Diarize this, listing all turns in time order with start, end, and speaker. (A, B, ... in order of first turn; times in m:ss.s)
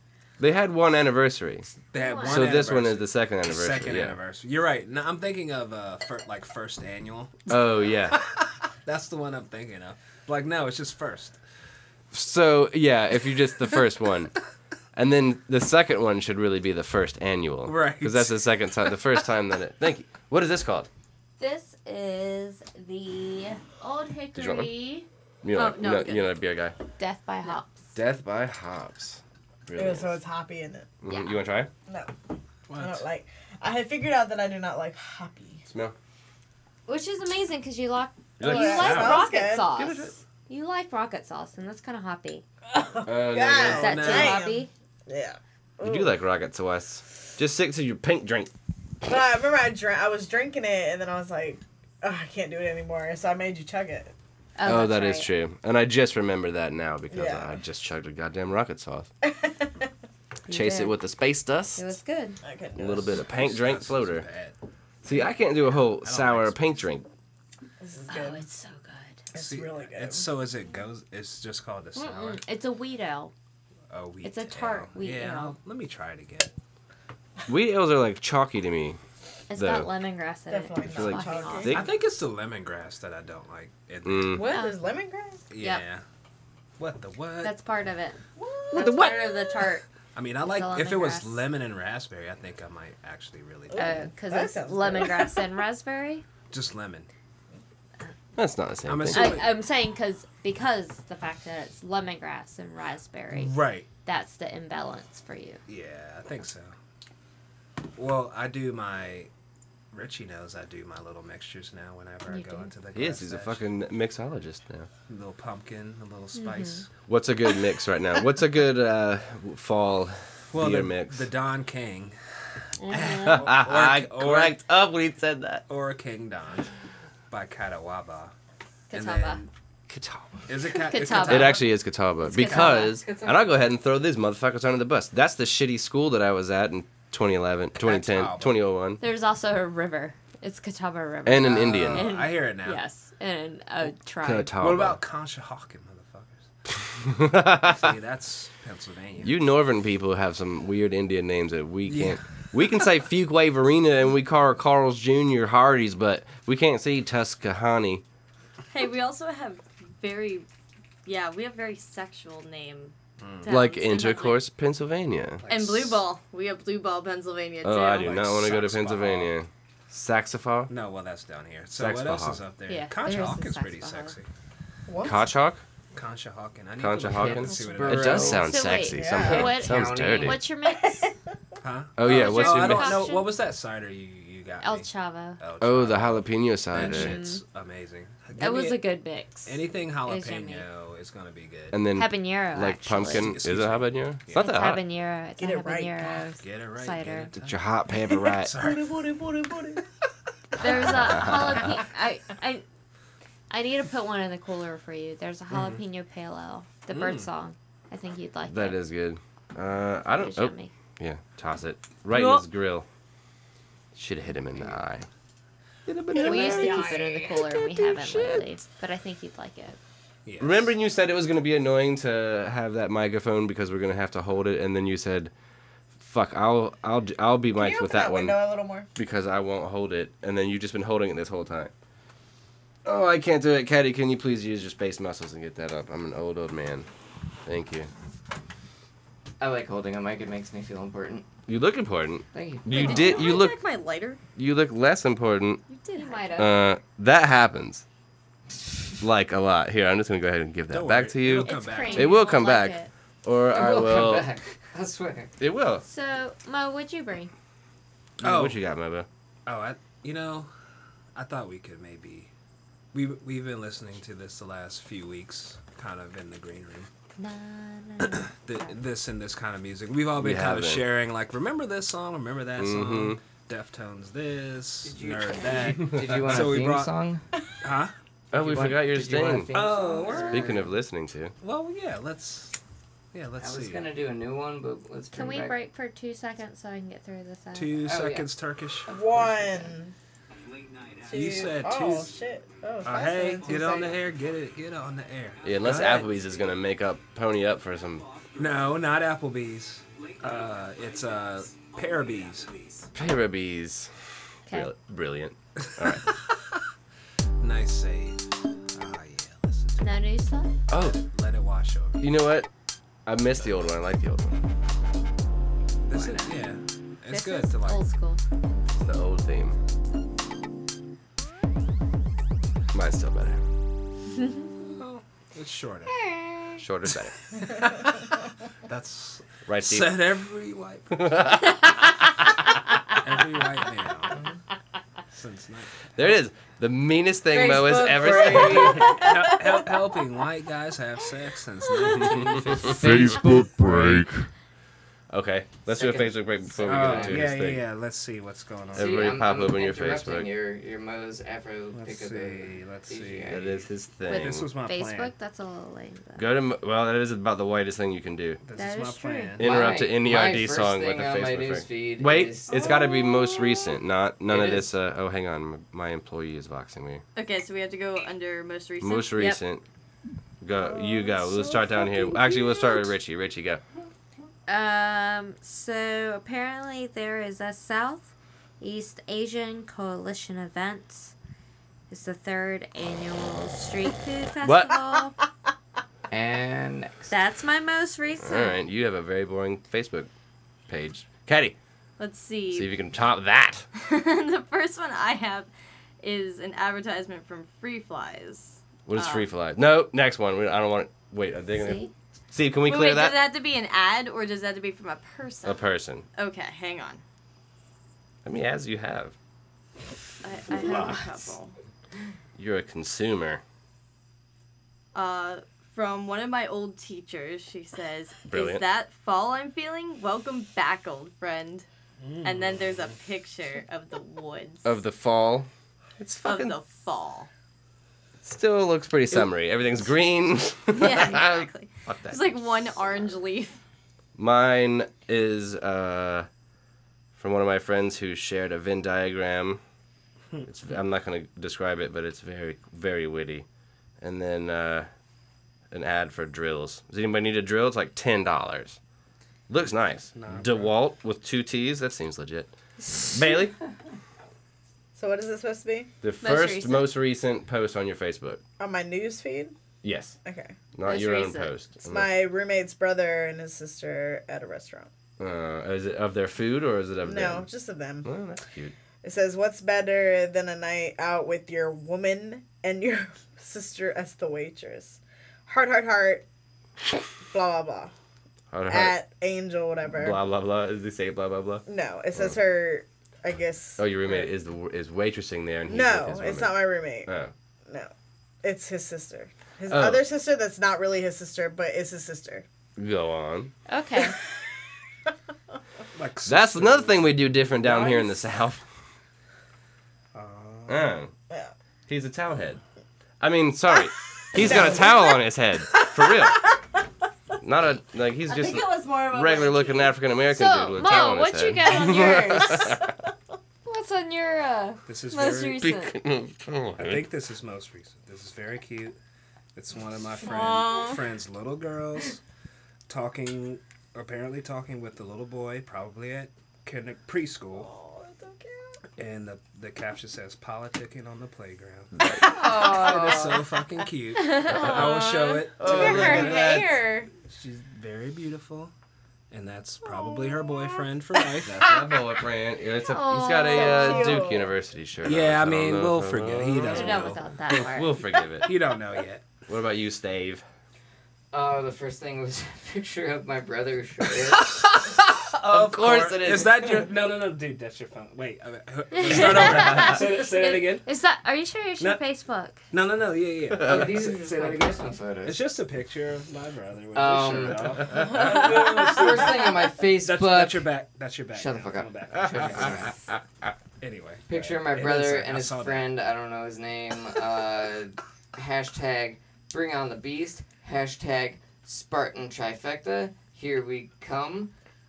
0:00.4-0:01.7 A
0:01.9-0:11.4 B
0:02.0-0:02.6 C
0:02.2-0:04.2 A
0:07.5-0:08.2 A
0:12.1-0:14.3 A
0:14.9-0:20.9 A
0:17.6-0:18.4 B
0:21.4-0:25.1 C
0:24.3-0:24.7 A
0:25.4-0:26.8 A
0:25.5-0:26.3 D
0:27.0-0:27.9 C
0:27.9-0:30.2 A
0:29.8-0:30.9 E
0:31.0-0:31.7 A
0:31.1-0:31.4 C
0:31.9-0:32.1 E
0:32.7-0:33.0 B
0:32.8-0:35.6 E
0:35.7-0:35.9 A
0:36.8-0:42.4 C
0:38.4-0:39.2 A
0:38.4-0:39.7 E
0:38.7-0:39.2 B
0:39.7-0:40.2 A
0:42.7-0:46.1 E
0:43.0-0:44.0 A
0:43.7-0:44.7 C
0:43.7-0:44.5 B
0:45.8-0:48.5 A
0:49.0-0:54.1 E
0:54.6-0:55.3 C
0:54.6-0:59.1 A
0:57.1-0:57.6 E
0:59.2-0:59.9 E
1:00.5-1:01.0 C
1:00.5-1:01.9 A
1:01.8-1:02.4 C
1:02.4-1:03.1 E
1:02.8-1:04.3 A
1:03.1-1:04.6 B
1:05.0-1:07.1 A
1:05.9-1:06.6 B
1:07.8-1:08.4 E
1:08.1-1:09.3 C
1:09.3-1:10.3 E
1:09.3-1:12.4 B
1:11.9-1:13.3 C
1:13.9-1:16.5 B
1:14.2-1:15.6 C
1:17.5-1:19.0 A
1:19.5-1:21.9 C
1:19.5-1:20.0 A
1:20.5-1:21.8 E
1:20.9-1:21.9 A
1:21.7-1:24.4 B
1:24.0-1:24.5 A
1:24.3-1:25.4 E
1:24.4-1:24.8 C
1:25.5-1:26.0 B
1:25.6-1:25.8 C
1:26.8-1:27.5 B
1:27.4-1:29.8 C
1:28.4-1:29.0 E
1:28.7-1:34.0 B
1:30.4-1:31.5 C
1:33.7-1:35.4 E
1:33.7-1:36.2 C
1:36.5-1:37.1 B
1:38.4-1:39.4 A
1:38.8-1:39.5 B
1:39.1-1:45.6 C
1:43.3-1:43.9 B
1:45.7-1:46.7 B
1:48.0-1:49.3 B
1:49.9-1:53.6 B
1:52.2-1:52.8 C
1:52.9-1:54.9 A
1:55.1-1:56.9 B
1:56.3-1:56.8 C
1:57.0-2:01.3 A
2:00.5-2:02.2 B
2:02.8-2:03.5 C
2:02.8-2:04.6 B
2:03.2-2:05.6 A
2:05.7-2:06.7 B
2:07.3-2:08.3 B
2:08.9-2:09.4 C
2:08.9-2:09.5 B
2:09.9-2:10.4 A
2:10.4-2:11.7 B
2:10.8-2:13.0 C
2:11.0-2:19.0 A
2:12.4-2:12.7 B
2:12.8-2:13.6 F
2:17.7-2:18.6 B
2:19.0-2:24.5 C
2:21.2-2:22.1 A
2:21.3-2:22.8 B
2:24.2-2:25.0 A
2:24.6-2:26.4 B
2:26.9-2:27.9 A
2:27.6-2:29.4 B
2:29.2-2:38.0 A
2:31.9-2:32.5 B
2:38.7-2:40.4 D
2:41.0-2:44.4 D
2:43.2-2:43.5 B
2:43.5-2:45.5 A
2:45.4-2:45.8 B
2:45.5-2:48.2 D
2:47.6-2:50.7 A
2:48.0-2:49.3 B
2:50.7-2:54.3 B
2:51.7-2:52.4 A
2:52.6-2:54.2 C
2:54.9-2:55.3 E
2:55.0-2:55.6 A
2:55.9-2:58.5 B
2:56.8-3:00.4 A
2:57.0-2:58.6 F
2:58.4-3:01.1 C
2:58.9-2:59.5 E
2:59.1-3:00.4 F
3:01.6-3:08.9 B
3:02.0-3:03.2 A
3:02.0-3:03.4 C
3:04.6-3:05.4 C
3:05.6-3:07.2 A
3:06.8-3:07.4 C
3:08.4-3:10.7 C
3:09.4-3:11.8 B
3:11.7-3:14.8 A
3:11.9-3:13.3 C
3:12.9-3:14.6 B
3:14.3-3:17.3 C
3:15.4-3:16.1 E
3:16.4-3:19.2 B
3:17.4-3:18.6 A
3:18.6-3:19.8 E
3:20.6-3:22.6 C
3:20.6-3:21.2 B
3:21.0-3:21.7 A
3:23.5-3:28.8 C
3:25.5-3:25.8 B
3:26.9-3:27.3 B
3:28.5-3:32.8 A
3:30.1-3:30.7 C
3:33.9-3:35.1 A
3:35.9-3:37.0 A
3:36.2-3:39.8 C
3:40.2-3:40.7 B
3:40.4-3:45.3 A
3:46.0-3:48.4 A
3:47.5-3:48.9 E
3:48.9-3:51.7 A
3:52.8-3:56.9 A
3:57.4-3:57.9 A
3:59.4-4:01.3 F
4:01.5-4:03.6 A
4:02.3-4:03.4 F
4:02.7-4:04.2 D
4:04.4-4:05.6 A
4:05.7-4:06.3 D
4:05.9-4:06.6 C
4:06.4-4:07.8 A
4:09.0-4:14.3 A
4:10.7-4:12.3 B
4:11.3-4:12.9 C
4:13.5-4:15.3 F
4:15.4-4:15.8 A
4:15.8-4:17.3 C
4:18.2-4:18.6 B
4:18.2-4:19.1 A
4:19.4-4:20.5 B
4:21.1-4:22.3 B
4:22.9-4:26.9 B
4:27.2-4:28.7 C
4:28.0-4:36.9 B
4:30.1-4:30.9 A
4:32.6-4:33.2 A
4:34.8-4:37.2 F
4:37.6-4:37.9 B
4:38.3-4:39.5 A
4:38.3-4:40.7 F
4:39.5-4:40.6 B
4:40.3-4:41.4 A
4:41.4-4:42.6 B
4:43.1-4:43.9 B
4:43.4-4:45.6 F
4:45.1-4:47.8 C
4:47.5-4:49.1 B
4:47.8-4:48.3 F
4:48.9-4:49.9 E
4:50.4-4:51.5 G
4:51.1-4:53.9 E
4:51.1-4:52.1 B
4:52.8-4:56.1 B
4:55.4-4:58.0 A
4:56.0-4:56.5 G
4:58.1-4:58.7 G
4:58.4-5:02.5 B
5:00.0-5:02.9 G
5:02.9-5:03.9 A
5:04.5-5:06.2 A
5:05.6-5:06.6 B
5:07.4-5:08.2 B
5:08.7-5:10.1 B
5:09.8-5:10.5 C
5:10.7-5:11.0 A
5:10.8-5:12.2 B
5:12.0-5:12.5 A
5:13.0-5:14.4 A
5:15.8-5:17.8 B
5:16.0-5:16.3 C
5:17.1-5:18.2 C
5:18.7-5:19.6 A
5:22.7-5:23.5 A
5:24.6-5:26.0 B
5:25.9-5:26.6 C
5:26.6-5:27.2 A
5:27.3-5:31.2 B
5:29.4-5:30.0 A
5:30.9-5:31.8 A
5:33.0-5:34.2 B
5:35.1-5:36.0 B
5:36.0-5:38.9 A
5:37.3-5:39.0 F
5:38.1-5:42.9 B
5:42.0-5:44.1 A
5:42.7-5:43.9 F
5:45.1-5:47.7 A
5:45.7-5:47.3 F
5:46.6-5:49.1 B
5:48.7-5:53.7 F
5:48.7-5:50.3 A
5:51.7-5:53.4 B
5:53.3-5:54.5 A
5:54.1-5:56.3 C
5:54.1-5:55.1 B
5:56.2-5:58.4 A
5:58.4-5:59.7 B
5:58.5-5:59.4 C
5:59.4-6:07.0 A
5:59.4-6:02.7 F
6:04.3-6:04.7 F
6:07.2-6:09.2 D
6:08.8-6:09.6 A
6:09.1-6:09.4 C
6:10.4-6:13.6 A
6:14.5-6:21.1 C
6:21.9-6:25.1 C
6:24.4-6:24.8 A
6:26.1-6:27.1 F
6:27.1-6:28.6 C
6:28.2-6:30.1 A
6:30.7-6:31.6 A
6:32.0-6:32.7 D
6:32.5-6:33.6 A
6:33.8-6:35.5 D
6:36.0-6:39.3 D
6:38.9-6:43.3 A
6:41.5-6:41.9 C
6:42.6-6:47.0 D
6:45.4-6:46.0 A
6:48.2-6:49.1 A
6:50.2-6:51.5 D
6:50.6-6:51.0 C
6:52.4-6:53.4 A
6:54.9-7:01.6 D
6:58.3-6:58.6 A
7:02.0-7:02.6 B
7:02.2-7:04.8 D
7:04.6-7:06.6 A
7:06.2-7:07.3 D
7:08.2-7:12.4 A
7:10.7-7:13.6 D
7:14.2-7:16.3 A
7:17.2-7:19.6 A
7:20.4-7:23.4 A
7:24.0-7:24.9 A
7:25.7-7:28.8 A
7:29.5-7:33.6 A
7:30.1-7:30.7 B
7:34.9-7:35.9 E
7:36.0-7:38.4 A
7:36.2-7:36.9 C
7:38.6-7:39.5 E
7:39.8-7:40.2 A
7:40.2-7:40.6 E
7:40.7-7:42.1 A
7:40.8-7:41.6 C
7:41.8-7:44.9 E
7:45.2-7:47.5 A
7:47.0-7:48.1 E
7:48.0-7:48.7 A
7:49.0-7:56.2 E
7:57.3-7:57.9 E
7:58.5-7:59.0 A
7:58.7-8:00.2 E
7:59.9-8:02.4 A
8:01.7-8:04.3 E
8:03.8-8:07.3 A
8:05.7-8:07.1 E
8:08.4-8:12.4 E
8:09.7-8:10.0 A
8:12.8-8:13.5 A
8:13.7-8:14.2 C
8:15.9-8:18.2 B
8:16.2-8:18.6 A
8:20.1-8:20.9 B
8:20.7-8:21.1 A
8:21.9-8:22.6 A
8:23.2-8:26.5 A
8:24.3-8:25.2 E
8:26.0-8:26.4 E
8:27.4-8:32.9 A
8:28.2-8:29.9 E
8:30.3-8:32.8 C
8:33.6-8:36.0 C
8:34.8-8:35.6 B
8:35.6-8:37.1 A
8:36.8-8:39.0 B
8:39.5-8:42.2 B
8:40.2-8:40.8 C
8:42.9-8:47.7 B
8:48.0-8:48.3 E
8:49.0-8:56.5 B
8:52.0-8:52.3 A
8:52.1-8:53.6 C
8:54.1-8:57.1 C
8:54.4-8:56.9 A
8:57.2-8:58.7 B
8:59.3-9:01.8 B
9:01.5-9:08.6 A
9:02.9-9:04.3 C
9:03.4-9:04.5 E
9:05.0-9:07.6 B
9:06.6-9:08.1 C
9:08.4-9:09.3 B
9:09.5-9:10.4 A
9:11.3-9:14.6 F
9:14.2-9:20.8 B
9:15.4-9:16.8 A
9:18.9-9:22.6 C
9:19.1-9:20.0 A
9:22.7-9:32.9 B
9:23.6-9:25.5 F
9:26.9-9:30.7 F
9:31.3-9:33.0 F
9:33.8-9:35.9 B
9:34.3-9:44.5 F